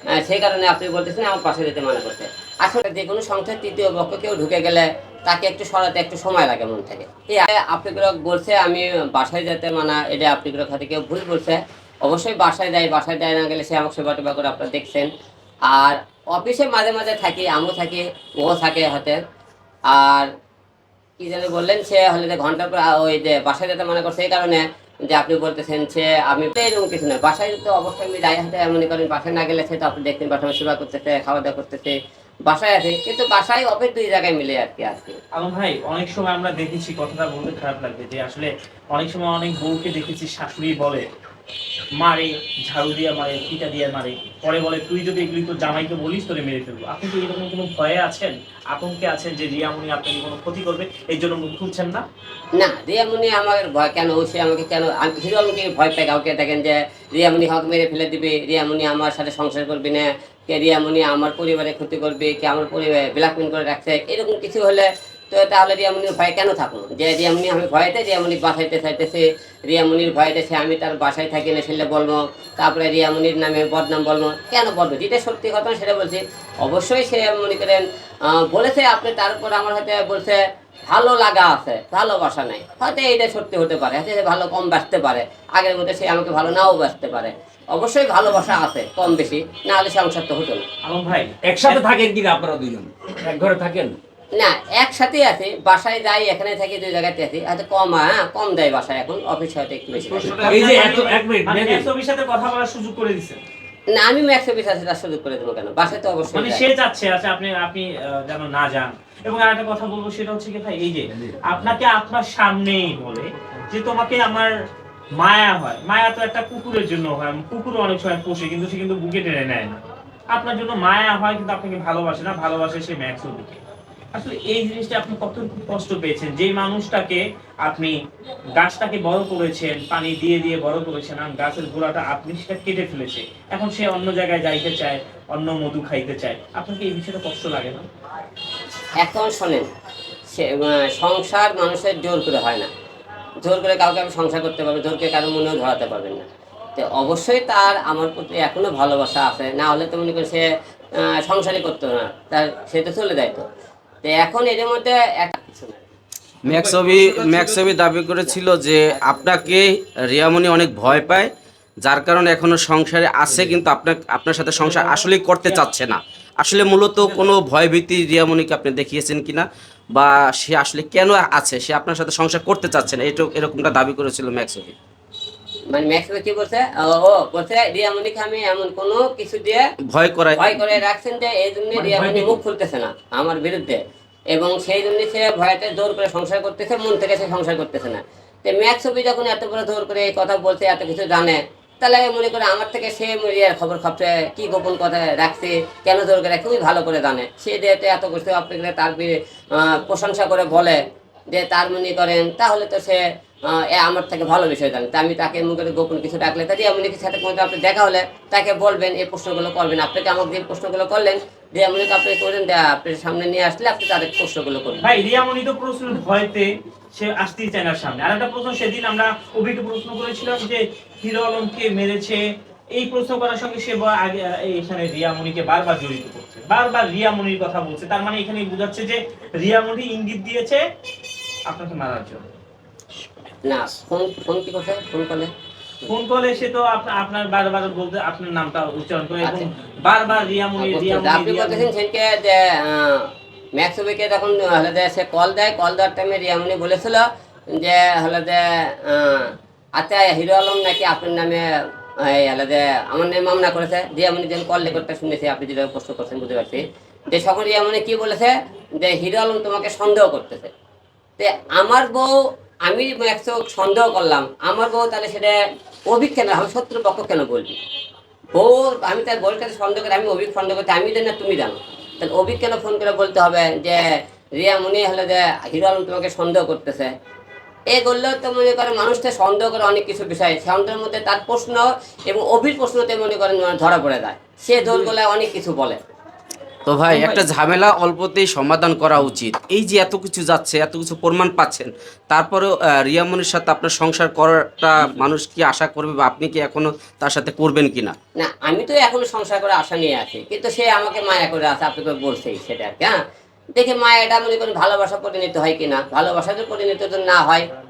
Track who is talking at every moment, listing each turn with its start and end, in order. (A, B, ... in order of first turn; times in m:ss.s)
0:00.1-0:15.1 A
0:15.7-0:19.2 A
0:19.9-0:20.3 A
0:21.2-0:31.9 A
0:32.4-0:35.2 A
0:35.3-0:41.0 B
0:42.0-0:52.0 B
0:52.6-1:30.7 A
1:30.8-1:31.8 B
1:31.4-1:34.0 C
1:34.3-1:40.6 A
1:40.1-1:41.8 C
1:40.2-1:43.4 B
1:43.9-1:46.6 A
1:46.3-1:54.5 B
1:55.2-1:59.8 B
2:00.3-2:03.6 B
2:04.1-2:07.9 B
2:08.6-2:17.9 B
2:19.0-2:19.7 A
2:20.3-2:22.7 A
2:23.4-2:26.2 A
2:26.8-2:33.4 A
2:34.0-2:35.8 A
2:36.4-2:37.7 C
2:36.4-2:41.3 D
2:38.9-2:39.2 A
2:41.8-2:54.7 D
2:44.6-2:45.6 B
2:55.7-2:59.6 A
2:59.9-3:00.5 D
3:00.4-3:20.8 A
3:01.7-3:02.4 C
3:21.3-3:34.9 A
3:34.8-3:42.2 B
3:42.7-3:50.6 B
3:51.5-3:52.2 B
3:53.4-3:55.3 A
3:55.9-4:01.7 B
4:00.6-4:11.4 A
4:12.0-4:20.5 A
4:21.2-4:22.1 A
4:22.7-4:25.4 A
4:25.9-4:27.6 A
4:28.3-4:36.9 A
4:37.7-4:45.8 A
4:46.6-4:58.0 D
4:58.2-5:03.0 A
5:03.5-5:07.4 A